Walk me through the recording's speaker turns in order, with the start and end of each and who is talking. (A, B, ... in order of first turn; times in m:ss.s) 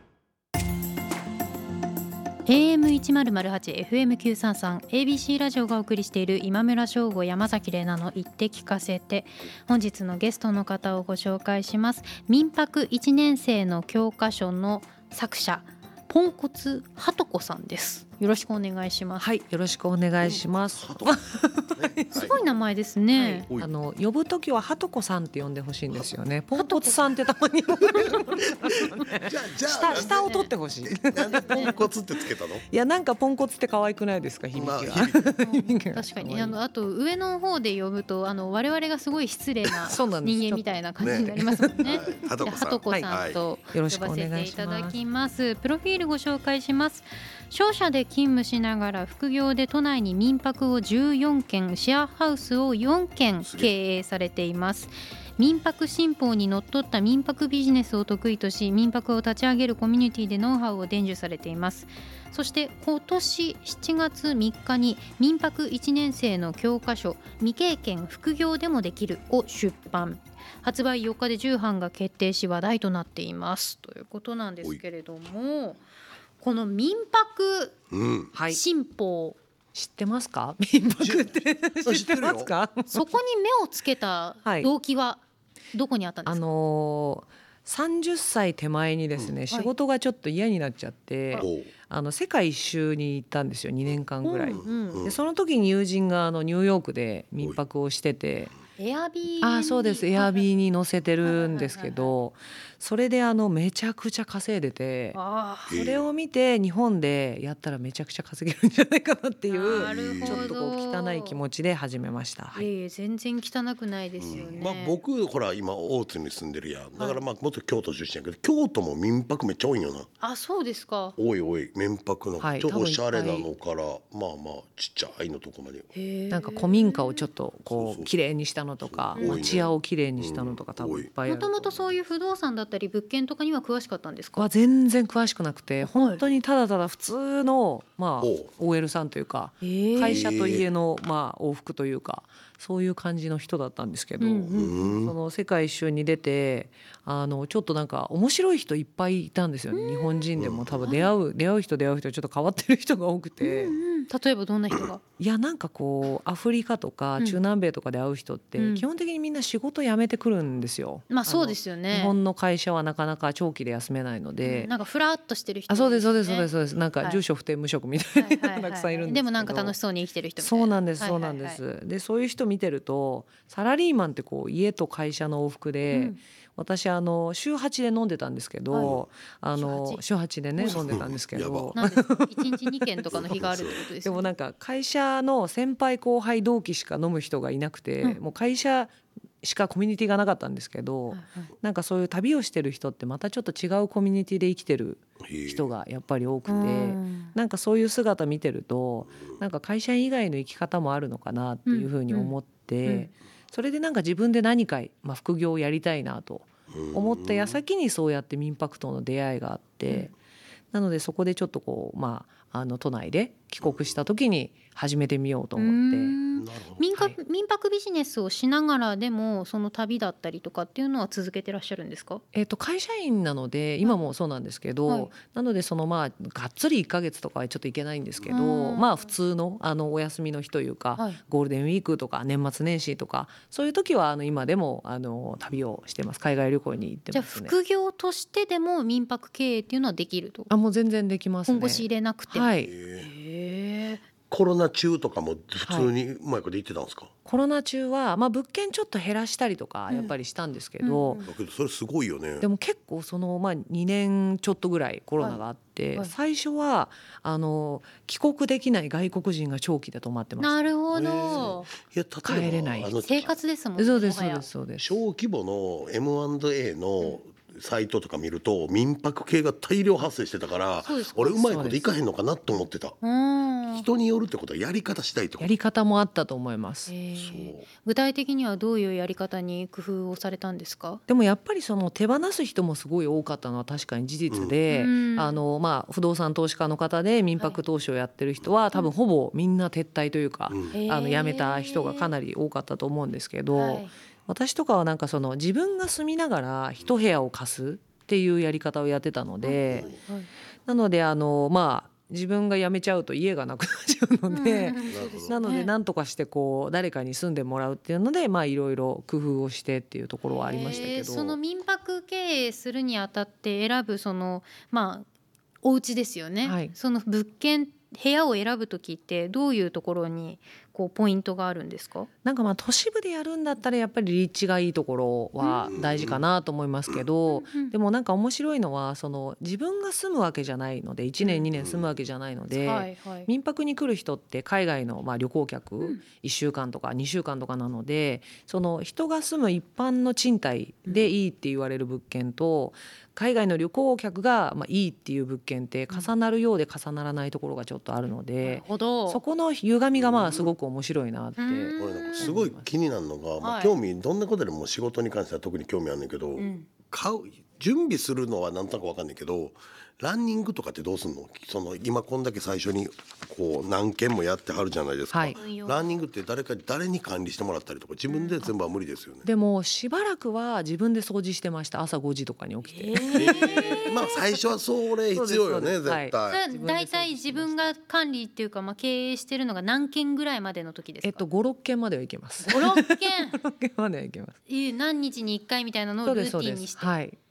0:02.5-0:19.3 A
0:19.2-0:22.3 B
0:20.2-0:22.4 C
0:22.1-0:23.5 A
0:23.1-0:31.9 B
0:26.5-0:27.1 A
0:28.0-0:32.6 C
0:29.8-0:30.5 A
0:31.5-0:31.8 A
0:32.7-0:36.6 B
0:34.5-0:35.3 C
0:35.4-1:15.8 A
0:39.8-0:41.9 B
0:41.0-0:43.4 C
0:43.7-0:45.0 B
0:53.4-0:53.7 C
1:16.4-1:17.8 A
1:17.9-1:18.3 C
1:18.3-1:18.6 B
1:18.5-1:19.4 A
1:19.7-1:23.1 B
1:21.0-1:22.5 C
1:22.9-1:26.4 A
1:24.4-1:24.7 B
1:26.2-1:38.5 B
1:31.4-1:31.7 C
1:34.2-1:35.1 A
1:34.6-1:35.2 C
1:38.8-1:40.4 A
1:39.4-1:45.2 B
1:41.2-1:42.1 A
1:45.1-1:45.8 A
1:45.7-1:46.1 C
1:45.7-1:52.6 B
1:49.5-1:51.4 A
1:49.7-1:50.5 C
1:52.5-1:55.0 A
1:54.2-2:00.1 C
2:00.2-2:01.2 A
2:01.2-2:05.9 C
2:02.4-2:03.5 B
2:05.9-2:07.2 A
2:06.3-2:11.9 B
2:07.7-2:08.1 C
2:08.8-2:11.1 C
2:09.2-2:09.6 A
2:11.3-2:14.5 A
2:14.4-2:33.7 B
2:15.8-2:16.2 A
2:18.2-2:18.5 C
2:19.6-2:20.2 A
2:20.0-2:20.7 C
2:24.2-2:25.0 A
2:24.5-2:25.1 C
2:29.7-2:30.2 A
2:30.4-2:31.0 C
2:30.8-2:31.1 A
2:33.4-2:35.0 A
2:35.2-2:44.7 B
2:38.6-2:38.8 A
2:41.1-2:42.1 A
2:44.4-2:46.5 A
2:45.7-2:49.8 B
2:48.2-2:51.6 A
2:50.4-3:02.8 B
2:55.9-2:56.2 A
2:58.8-2:59.1 C
2:59.5-3:00.0 A
3:00.6-3:01.8 C
3:01.8-3:04.3 A
3:03.1-3:03.8 C
3:04.0-3:30.1 B
3:11.1-3:11.5 A
3:15.2-3:15.6 C
3:16.4-3:17.3 A
3:21.7-3:22.3 A
3:22.8-3:23.1 A
3:26.7-3:27.6 C
3:30.7-3:36.2 B
3:33.6-3:34.0 C
3:35.6-3:42.2 A
3:36.4-3:36.8 C
3:42.3-3:57.5 B
3:48.3-3:49.1 A
3:57.1-4:00.5 A
4:00.5-4:02.7 B
4:01.5-4:04.0 A
4:02.6-4:03.1 C
4:04.3-4:07.1 C
4:05.7-4:05.9 B
4:07.2-4:11.2 B
4:10.8-4:11.3 A
4:11.2-4:12.5 C
4:12.4-4:20.6 B
4:20.4-4:21.7 A
4:20.9-4:23.4 C
4:22.2-4:23.0 B
4:23.0-4:24.5 A
4:23.8-4:24.9 B
4:24.8-4:33.0 C
4:30.8-4:31.7 A
4:31.5-4:31.8 B
4:33.0-4:33.8 A
4:33.7-4:35.5 C
4:35.4-4:36.9 B
4:36.9-4:41.0 A
4:37.2-4:37.6 C
4:41.1-4:59.9 B
4:44.3-4:44.6 C
4:44.7-4:45.4 A
4:50.5-4:50.8 C
4:50.7-4:52.1 A
4:53.5-4:53.9 A
4:59.4-5:00.3 A
4:59.7-5:00.0 C
5:00.6-5:11.4 B
5:04.3-5:05.7 A
5:04.9-5:05.4 C
5:10.3-5:15.0 A
5:10.5-5:10.9 C
5:15.6-5:22.1 A
5:16.4-5:16.7 B
5:22.2-5:52.7 B
5:25.4-5:25.7 A
5:25.7-5:26.2 C
5:27.3-5:27.7 A
5:31.6-5:31.9 C
5:32.5-5:33.3 A
5:48.4-5:49.2 A
5:49.9-5:50.5 C
5:51.4-5:52.3 A
5:51.8-6:09.3 C
5:53.4-5:53.7 A
5:56.4-5:56.7 A
6:05.1-6:05.4 B
6:05.4-6:05.8 A
6:08.1-6:08.5 A
6:09.2-6:13.9 B
6:12.6-6:14.2 A
6:13.1-6:16.4 C
6:15.1-6:17.7 B
6:16.3-6:21.2 A
6:21.0-6:24.4 B
6:22.4-6:23.4 A
6:24.5-6:26.9 A
6:26.0-6:27.2 B